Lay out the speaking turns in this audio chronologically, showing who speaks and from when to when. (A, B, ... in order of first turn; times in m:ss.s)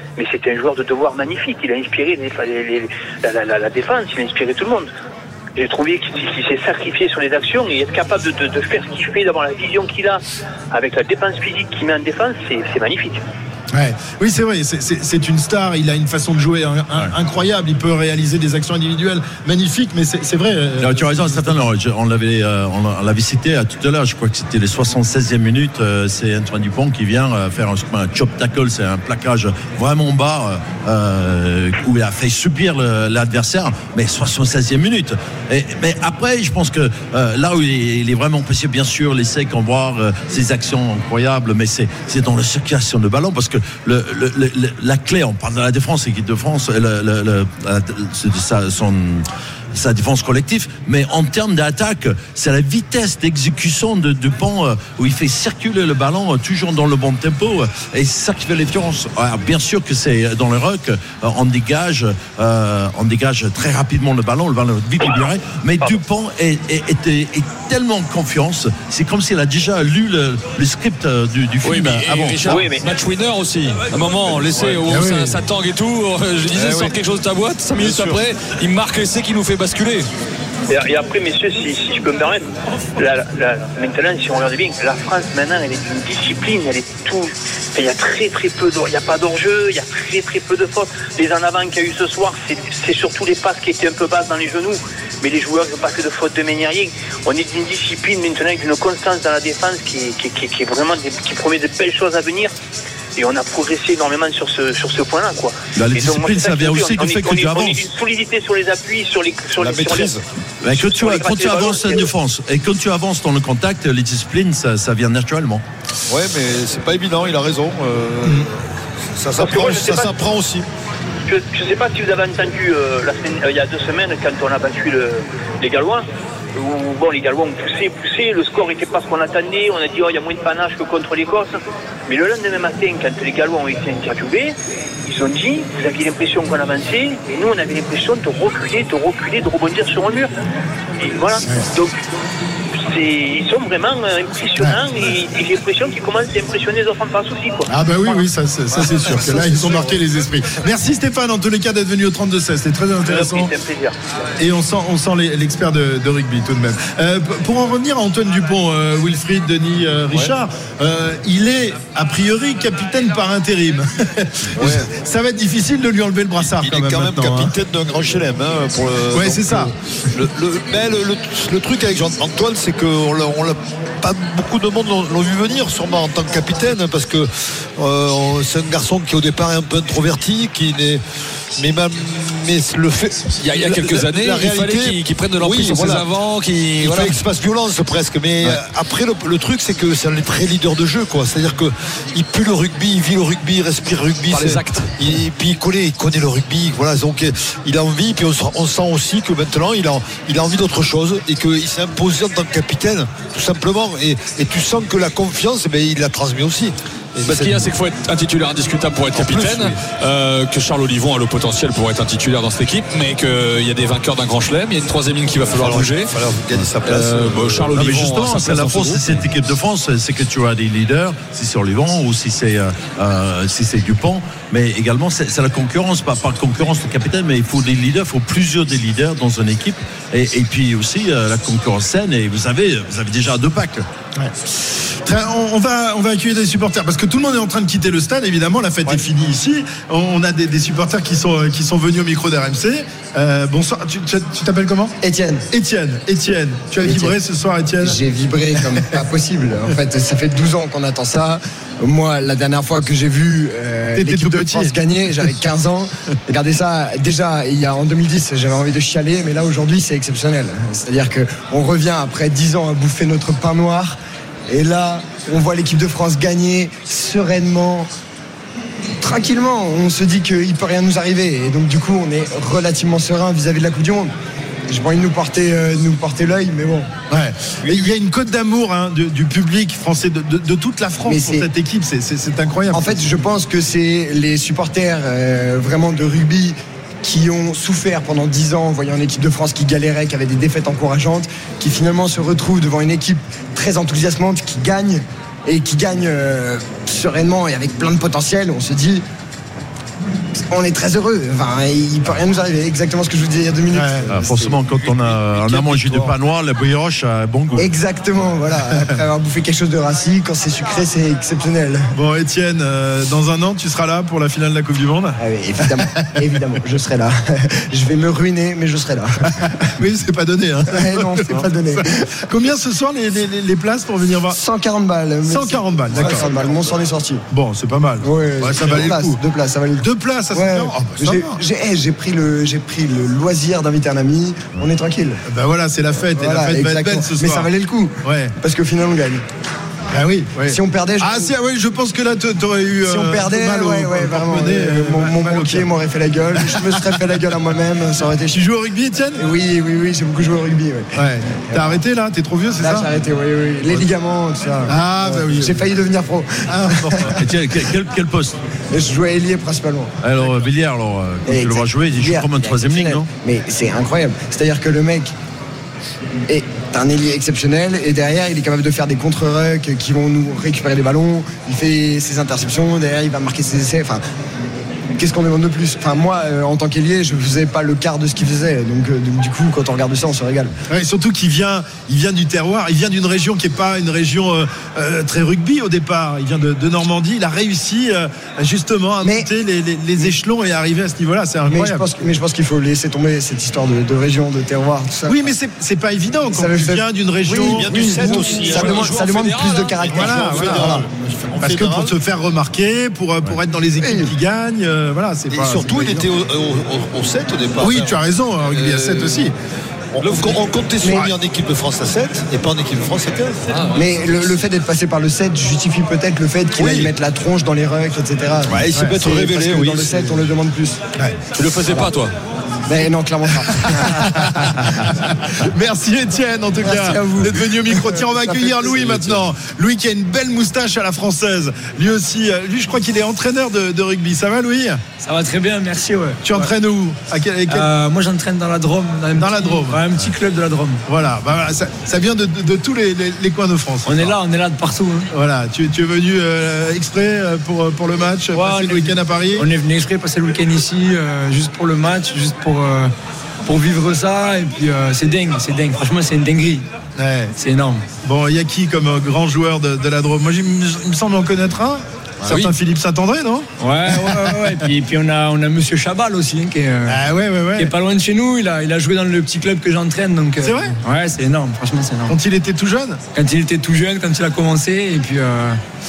0:00.2-0:04.9 A
0:05.6-0:10.2 A
0:10.7-0:13.2 A
0:13.7-0:21.6 B
0:20.8-1:12.6 C
1:11.6-1:20.1 D
1:12.5-1:12.8 A
1:14.9-1:15.4 B
1:16.5-1:16.9 E
1:17.8-1:18.2 E
1:20.7-1:22.4 A
1:23.0-1:42.5 A
1:43.2-1:50.1 A
1:45.8-1:47.9 C
1:49.6-1:50.2 E
1:50.6-1:55.6 C
1:50.9-1:52.1 A
1:56.1-1:58.5 E
1:59.1-2:00.6 E
1:59.4-2:00.1 A
2:01.2-2:14.5 A
2:15.0-2:20.3 A
2:21.0-2:22.0 A
2:22.8-2:28.1 A
2:27.7-2:33.5 B
2:33.0-2:33.9 A
2:34.4-2:47.5 B
2:44.6-2:44.9 E
2:46.6-3:01.0 E
2:49.1-2:49.7 B
3:01.6-3:06.0 E
3:03.4-3:07.2 D
3:06.8-3:27.6 E
3:14.3-3:14.9 D
3:27.2-3:36.1 D
3:29.1-3:29.8 E
3:35.5-3:37.7 E
3:36.8-3:39.2 D
3:37.7-3:53.9 C
3:55.0-4:05.0 B
4:05.0-4:05.4 F
4:05.5-4:08.0 B
4:06.8-4:07.2 F
4:07.8-4:24.0 F
4:08.6-4:08.9 B
4:13.9-4:15.4 B
4:24.5-4:27.9 F
4:29.0-4:34.1 F
4:34.7-4:36.9 F
4:37.1-4:43.1 B
4:37.6-4:37.9 E
4:41.0-4:41.5 F
4:42.7-4:59.0 F
5:00.5-5:04.7 F
5:03.7-5:04.2 B
5:04.1-5:07.7 C
5:05.5-5:06.1 F
5:07.5-5:11.9 F
5:11.9-5:16.1 B
5:15.2-5:19.1 F
5:19.3-5:24.4 B
5:20.7-5:22.0 F
5:24.3-5:27.2 F
5:25.2-5:26.5 B
5:27.3-5:29.2 B
5:28.0-5:35.2 F
5:29.8-5:31.4 B
5:35.2-5:37.5 B
5:36.1-5:39.2 F
5:38.0-5:38.3 B
5:39.9-5:45.7 B
5:40.4-5:41.3 F
5:42.8-5:48.4 F
5:46.3-5:47.2 B
5:48.3-5:49.2 B
5:49.2-5:51.8 F
5:50.9-5:53.0 B
5:52.6-5:57.1 F
5:53.6-5:53.9 B
5:54.7-5:55.7 B
5:56.5-5:57.2 B
5:57.2-5:58.4 C
5:58.7-5:59.9 F
6:00.0-6:03.1 C
6:01.3-6:05.1 F
6:06.3-6:14.0 F
6:15.0-6:20.5 F
6:20.7-6:32.2 B
6:29.0-6:29.3 F
6:31.5-6:35.3 F
6:35.0-6:38.9 B
6:36.3-6:40.7 F
6:37.4-6:39.1 E
6:38.2-6:40.2 D
6:39.8-6:41.9 E
6:39.9-6:40.8 B
6:41.4-6:46.1 B
6:43.8-6:44.1 F
6:45.3-6:48.0 E
6:47.6-6:49.3 B
6:48.7-6:49.0 E
6:49.9-6:53.4 E
6:50.8-6:51.1 F
6:53.5-6:53.9 D
6:53.7-7:00.8 F
6:56.6-6:56.9 E
6:58.4-7:00.2 E
6:58.7-6:59.0 B
7:01.4-7:02.1 D
7:02.7-7:04.1 F
7:03.4-7:14.8 B
7:06.6-7:09.2 F
7:15.0-7:16.5 G
7:16.2-7:17.7 B
7:17.5-7:20.8 G
7:19.2-7:19.9 B
7:20.8-7:24.2 B
7:23.8-7:25.1 G
7:25.1-7:29.5 B
7:28.3-7:32.9 G
7:33.5-7:36.6 G
7:37.0-7:37.4 B
7:37.4-7:37.8 G
7:38.0-7:44.6 B
7:43.6-7:47.0 G
7:46.9-7:47.7 B
7:47.6-7:52.1 G
7:50.4-7:50.8 B
7:52.1-7:53.0 B
7:53.1-7:55.6 G